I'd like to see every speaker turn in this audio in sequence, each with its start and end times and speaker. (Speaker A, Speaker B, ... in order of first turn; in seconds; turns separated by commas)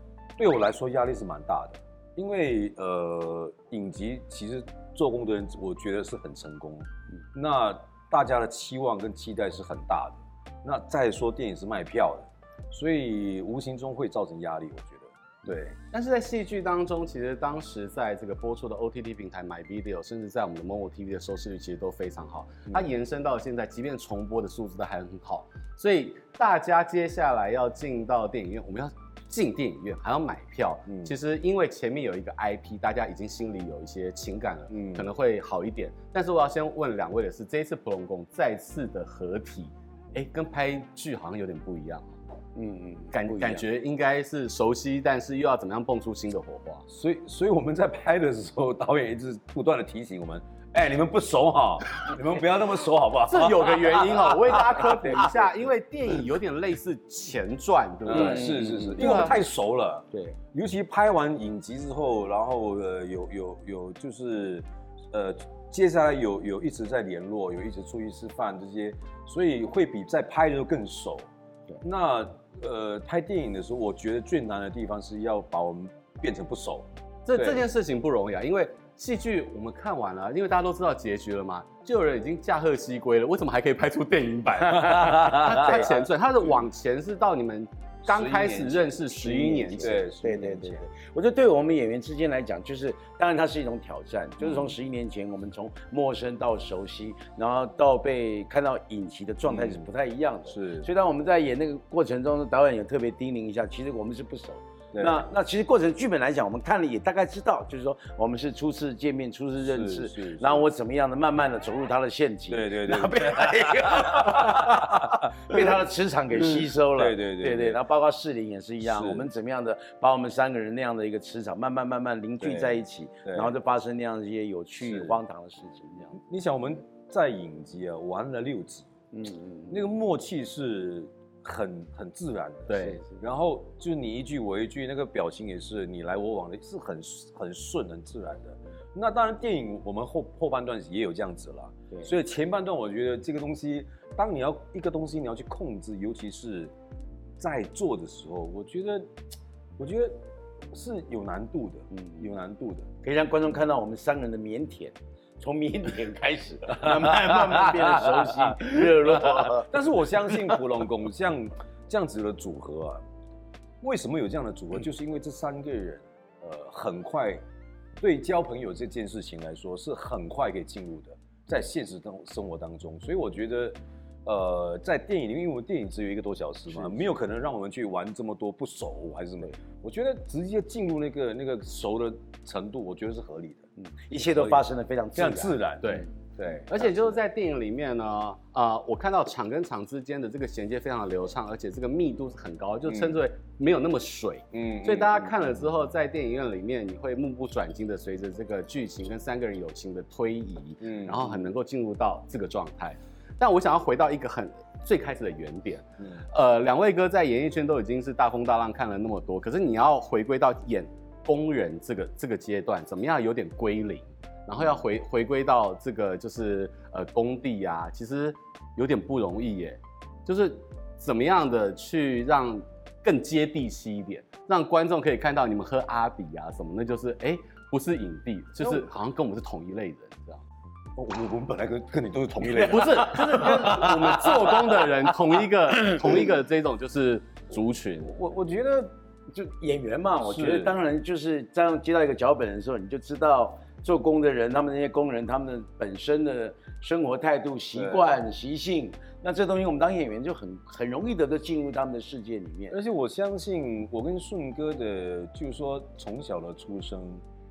Speaker A: 0.4-15.8, Speaker B: 15.9-42.1, Speaker A: 30.9-31.1, Speaker A: 34.7-35.1, Speaker C: 42.5-43.6, Speaker B: 43.1-46.8, Speaker A: 46.9-55.2, Speaker B: 53.3-59.4, Speaker A: 58.1-71.3, Speaker C: 58.1-59.3, Speaker A: 71.8-77.6, Speaker B: 77.3-90.0, Speaker A: 84.8-85.9, Speaker A: 88.1-90.8, Speaker C: 89.6-126.2, Speaker A: 94.4-94.7, Speaker A: 99.5-99.9, Speaker A: 100.5-100.9, Speaker A: 104.9-105.2, Speaker A: 109.6-110.7, Speaker A: 112.5-115.6, Speaker A: 116.5-117.8, Speaker A: 118.8-119.3, Speaker A: 122.4-123.5, Speaker A: 124.8-125.2, Speaker A: 126.2-128.9, Speaker C: 129.1-129.8, Speaker A: 129.7-146.7, Speaker B: 132.7-133.0, Speaker A: 147.4-149.1, Speaker A: 149.8-150.2, Speaker A: 150.7-152.9, Speaker C: 152.0-152.2, Speaker C: 153.0-160.6, Speaker A: 156.7-163.0, Speaker A: 163.8-167.4, Speaker A: 168.0-183.7, Speaker C: 176.8-177.0, Speaker C: 183.8-185.6, Speaker A: 184.2-184.6, Speaker A: 185.2-186.9, Speaker B: 185.8-186.1, Speaker B: 186.7-230.4, Speaker A: 192.9-193.2, Speaker A: 194.5-195.6, Speaker A: 200.8-201.5, Speaker A: 228.6-228.9, Speaker A: 231.0-234.9, Speaker B: 232.6-238.1, Speaker A: 238.1-238.9, Speaker C: 239.3-252.8, Speaker A: 240.2-240.7, Speaker A: 247.8-248.1, Speaker A: 252.7-257.2